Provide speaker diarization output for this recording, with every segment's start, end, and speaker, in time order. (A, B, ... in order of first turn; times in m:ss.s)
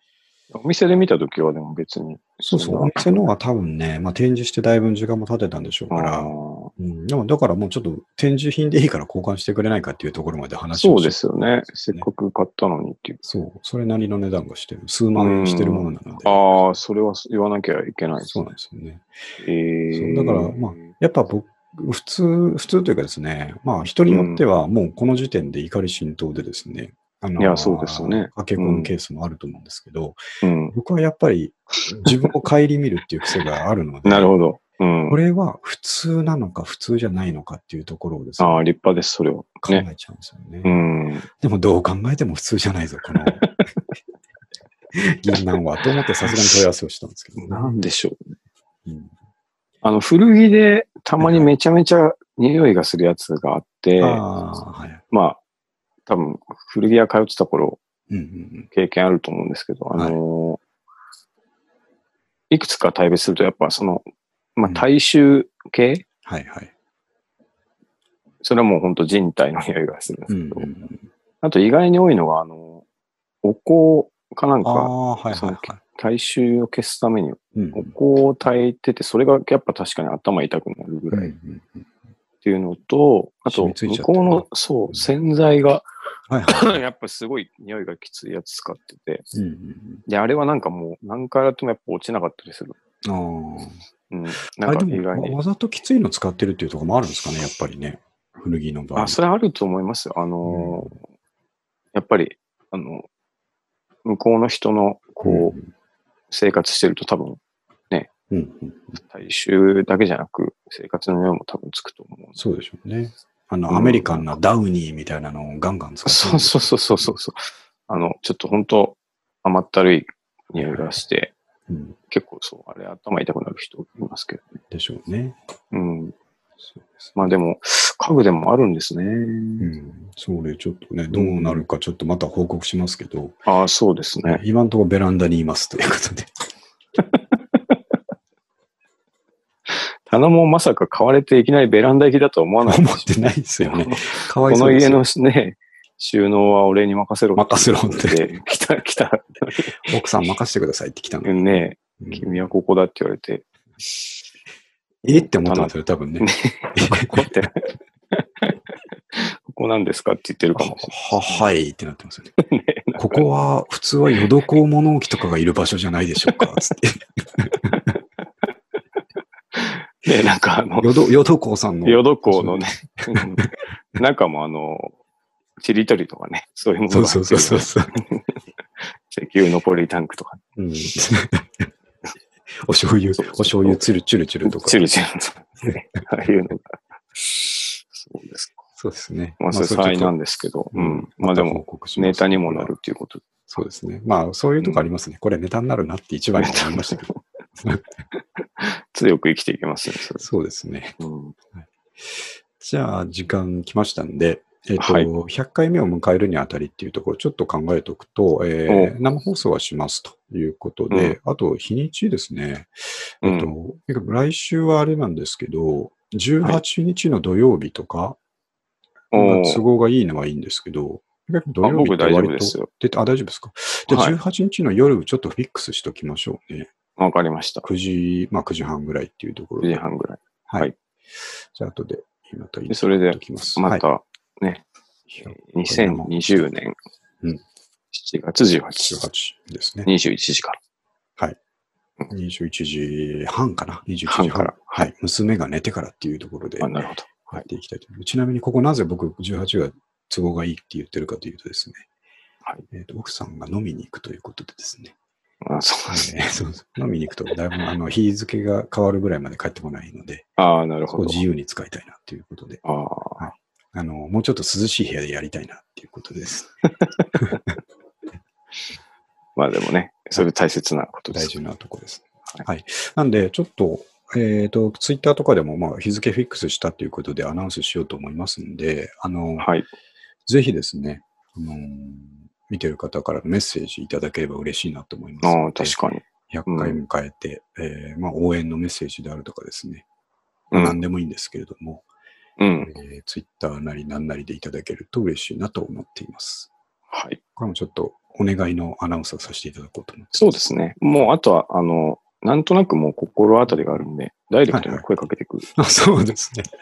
0:00.5-0:03.0 A
0:02.4-0:11.2 B
0:05.9-0:06.7 A
0:10.7-0:13.2 A
0:13.2-0:16.8 B
0:15.2-0:18.5 A
0:18.2-0:19.1 B
0:19.4-0:20.9 A
0:19.9-0:30.2 B
0:24.1-0:24.4 A
0:27.4-0:28.9 A
0:30.4-0:30.7 A
0:30.7-0:34.3 B
0:32.0-0:32.3 A
0:34.0-0:35.2 A
0:35.1-0:38.6 B
0:38.4-0:39.8 A
0:39.6-0:40.7 B
0:40.6-0:41.3 A
0:41.4-0:43.5 B
0:44.9-0:47.8 B
0:47.4-0:48.4 A
0:48.9-0:49.1 B
0:49.8-0:54.2 A
0:51.2-0:51.5 B
0:54.0-0:55.0 B
0:55.1-0:55.4 A
0:56.1-0:57.8 A
0:58.1-0:58.7 B
0:58.7-1:00.6 A
0:59.9-1:00.2 B
1:02.5-1:04.0 A
1:04.6-1:06.0 A
1:06.3-1:06.7 B
1:08.4-1:10.7 A
1:10.3-1:11.0 B
1:11.4-1:12.8 A
1:13.4-1:21.3 A
1:14.6-1:15.8 B
1:17.6-1:17.9 B
1:21.1-1:21.9 B
1:22.4-1:25.9 A
1:23.5-1:25.0 B
1:26.3-1:26.8 B
1:26.5-1:29.3 A
1:29.3-1:30.0 B
1:30.1-1:32.8 A
1:33.0-1:33.8 B
1:34.1-1:35.4 A
1:34.6-1:39.2 B
1:39.0-1:41.0 A
1:40.4-1:40.9 B
1:41.9-1:43.1 A
1:44.0-1:45.6 A
1:45.2-1:45.6 B
1:46.3-1:48.1 A
1:48.3-1:49.0 B
1:49.0-1:52.4 A
1:52.4-1:57.1 B
1:53.7-1:54.3 A
1:56.0-2:01.4 A
2:00.6-2:00.9 B
2:01.7-2:02.0 B
2:02.1-2:04.6 A
2:04.7-2:05.4 B
2:05.7-2:06.2 A
2:06.6-2:07.2 B
2:07.2-2:09.7 A
2:09.6-2:13.4 B
2:11.1-2:11.6 A
2:13.5-2:14.4 A
2:14.3-2:16.3 B
2:19.7-2:23.2 A
2:22.6-2:25.0 B
2:23.7-2:29.9 A
2:27.4-2:28.2 B
2:29.8-2:32.4 B
2:31.2-2:34.1 A
2:35.0-2:37.5 B
2:35.4-2:41.5 A
2:40.6-2:42.3 B
2:42.4-2:43.2 A
2:43.0-2:47.9 B
2:46.3-2:46.5 A
2:47.6-2:48.0 A
2:49.5-2:50.9 A
2:50.8-2:53.5 B
2:51.8-2:55.0 A
2:55.6-2:58.4 A
2:56.9-2:58.0 B
2:59.1-3:00.4 A
3:00.6-3:01.7 B
3:02.6-3:04.9 B
3:03.2-3:03.8 A
3:04.4-3:08.6 A
3:08.8-3:10.2 B
3:09.4-3:13.2 A
3:10.7-3:12.7 B
3:13.5-3:17.8 B
3:16.4-3:17.2 A
3:18.1-3:20.3 A
3:20.2-3:21.0 B
3:21.0-3:21.4 A
3:21.6-3:38.2 B
3:24.8-3:25.1 A
3:28.7-3:28.9 A
3:30.9-3:31.2 A
3:33.2-3:33.5 A
3:39.1-3:39.6 A
3:39.1-3:46.7 B
3:41.6-3:42.7 A
3:43.9-3:44.2 A
3:47.0-3:47.7 A
3:47.6-3:49.8 B
3:49.6-3:50.7 A
3:51.5-3:53.8 B
3:52.7-3:54.6 A
3:55.1-3:56.5 B
3:55.2-3:56.8 A
3:57.9-3:59.0 A
3:58.8-3:59.9 B
3:59.9-4:00.6 A
4:02.1-4:11.9 B
4:04.1-4:04.8 A
4:06.6-4:07.4 A
4:12.7-4:15.0 B
4:15.4-4:16.1 A
4:15.9-4:20.3 B
4:20.4-4:21.2 A
4:20.9-4:22.6 B
4:22.6-4:23.2 A
4:23.2-4:26.5 B
4:26.8-4:27.4 A
4:27.2-4:27.5 B
4:29.4-4:31.3 A
4:31.1-4:39.5 B
4:39.4-4:39.7 A
4:40.3-4:49.8 B
4:45.2-4:46.8 A
4:50.5-4:50.8 A
4:50.5-4:51.8 B
4:52.4-4:52.7 A
4:52.6-4:56.5 B
4:56.9-4:57.2 A
4:57.4-5:00.3 B
5:00.1-5:05.5 A
5:04.5-5:04.8 B
5:05.6-5:06.5 B